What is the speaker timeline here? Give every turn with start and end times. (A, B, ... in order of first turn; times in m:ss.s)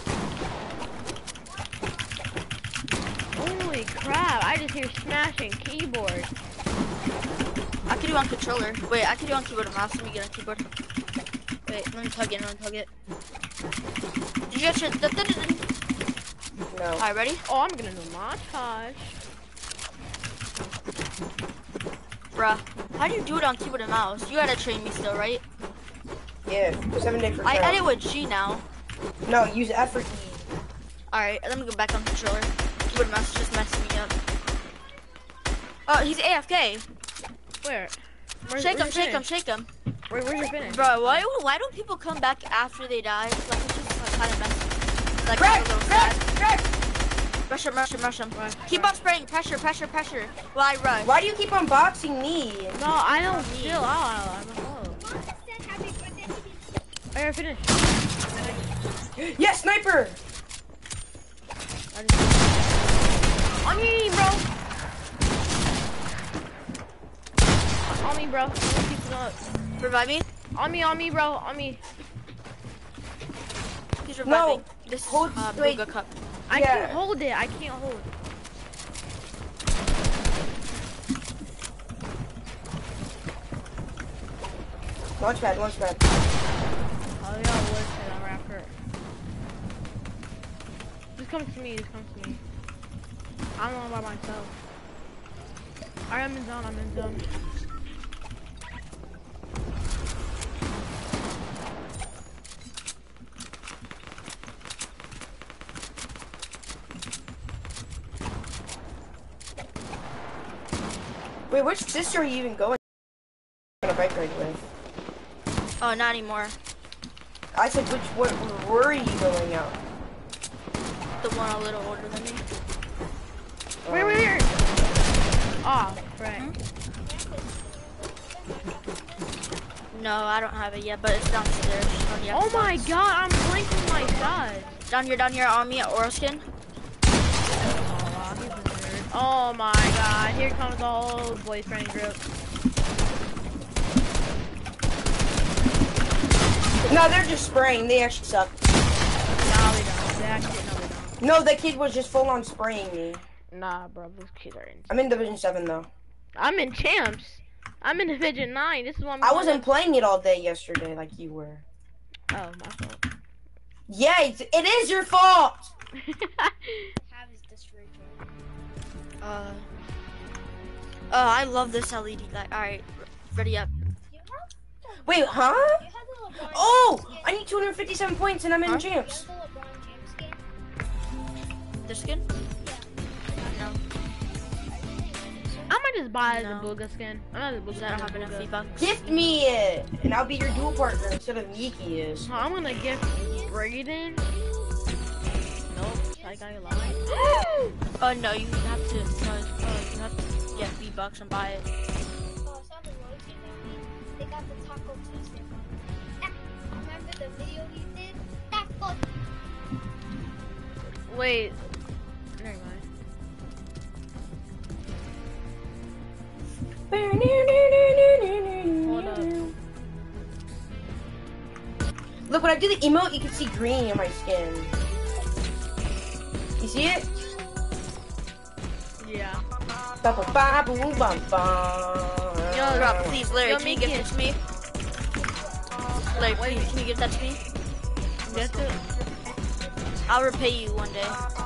0:03.3-0:06.3 A
0:07.9-0:10.6 B
0:11.7-0:12.9 B
0:14.5-0:15.6 B
0:16.7-0:17.0 C
0:17.0-0:17.4 B
0:17.5-0:19.2 A
0:22.3-0:25.4 B
0:26.4-0:27.8 C
0:27.4-0:28.6 B
0:29.2-0:30.5 C
0:31.1-0:34.1 B
0:35.9-0:36.8 B
0:37.6-0:37.9 A
0:38.4-0:39.2 A
0:38.6-0:39.7 B
0:40.1-0:41.2 A
0:40.6-0:46.2 B
0:45.3-0:46.7 C
0:47.5-0:51.1 B
0:48.3-0:48.9 A
0:51.0-0:52.8 C
0:52.7-0:55.0 A
0:53.3-0:53.8 B
0:55.0-0:56.8 D
0:57.1-0:57.9 A
0:59.2-1:00.2 C
1:01.9-1:04.4 A
1:07.9-1:09.4 A
1:09.8-1:10.2 B
1:10.6-1:11.8 A
1:14.0-1:16.1 B
1:14.2-1:15.8 C
1:16.5-1:18.1 A
1:16.5-1:17.0 C
1:25.2-1:26.0 C
1:27.2-1:28.7 A
1:31.2-1:32.4 A
1:33.6-1:34.5 A
1:36.1-1:37.2 A
1:51.5-1:52.8 C
1:53.8-1:54.6 C
1:55.8-1:56.5 B
1:57.5-1:59.8 C
2:01.2-2:02.4 B
2:03.8-2:04.6 A
2:03.8-2:04.3 C
2:05.6-2:06.5 A
2:07.0-2:09.4 D
2:09.9-2:12.9 B
2:12.3-2:14.7 A
2:13.7-2:14.8 D
2:14.9-2:16.4 B
2:17.7-2:22.2 A
2:26.9-2:28.5 C
2:29.4-2:31.2 A
2:31.2-2:33.2 C
2:33.5-2:34.9 A
2:34.9-2:35.9 C
2:36.4-2:39.7 A
2:39.2-2:41.6 C
2:42.3-2:43.0 A
2:43.9-2:45.7 C
2:46.0-2:46.9 A
2:47.0-2:48.3 D
2:49.2-2:49.6 B
2:51.1-2:53.7 B
2:54.1-2:57.4 D
2:55.0-2:55.8 C
2:56.4-2:59.2 C
2:58.7-3:00.4 D
3:01.8-3:02.2 B
3:02.6-3:03.8 D
3:03.4-3:03.8 B
3:04.5-3:05.8 D
3:05.7-3:08.9 A
3:06.3-3:06.7 B
3:07.7-3:08.9 B
3:08.8-3:12.3 C
3:12.2-3:14.2 A
3:13.1-3:13.7 D
3:15.6-3:17.5 D
3:15.7-3:17.7 A
3:18.0-3:21.7 B
3:22.4-3:29.1 D
3:31.1-3:31.6 A
3:32.4-3:32.8 A
3:36.9-3:39.5 C
3:38.8-3:39.3 A
3:42.3-3:44.7 C
3:46.6-3:47.1 C
3:49.0-3:49.4 A
3:50.0-3:53.2 C
3:52.5-3:54.2 A
3:52.7-3:54.4 B
3:56.1-3:57.4 B
3:56.3-3:56.7 A
3:58.2-3:58.8 A
4:00.1-4:01.2 B